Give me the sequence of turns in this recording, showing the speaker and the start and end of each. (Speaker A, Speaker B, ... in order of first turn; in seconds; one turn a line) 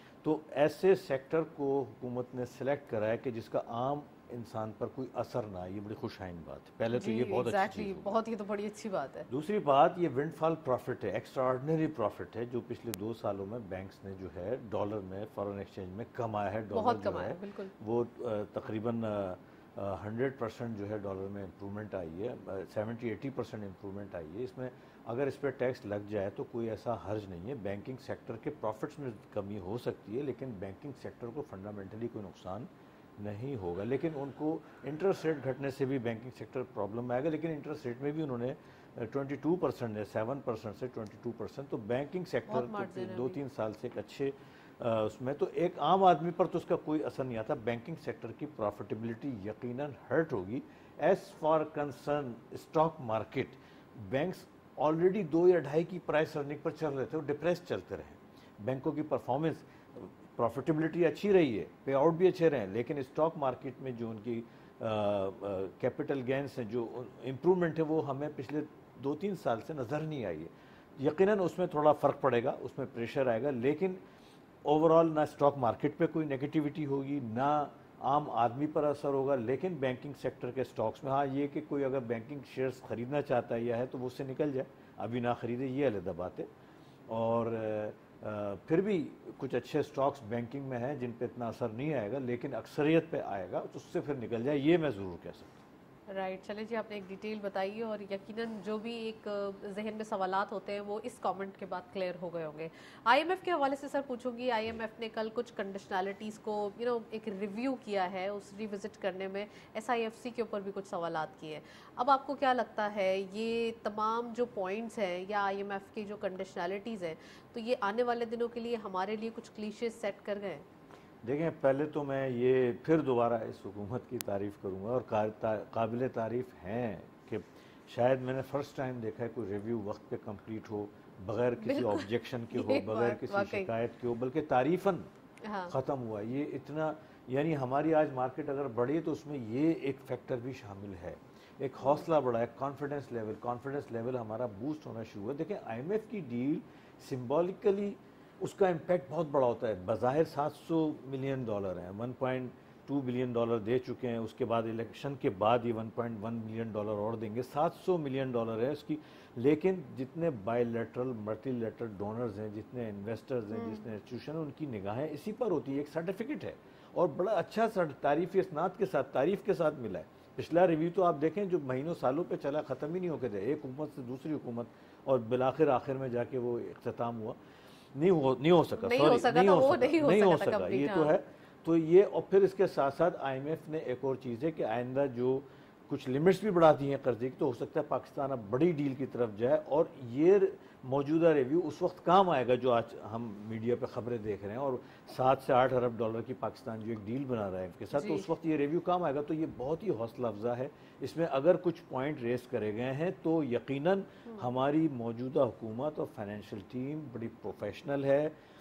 Speaker A: 0.2-8.1
Speaker B: 6.9-9.3
Speaker A: 9.3-74.0
Speaker B: 16.7-17.7
Speaker B: 42.5-43.4
Speaker A: 74.6-86.5
Speaker A: 87.1-95.6
Speaker B: 96.1-120.7
Speaker A: 121.2-135.1
Speaker B: 131.6-133.7
Speaker B: 135.4-135.7
Speaker A: 135.7-177.4
Speaker B: 163.5-163.8
Speaker A: 177.9-208.3
Speaker B: 178.8-181.1
Speaker B: 197.9-198.3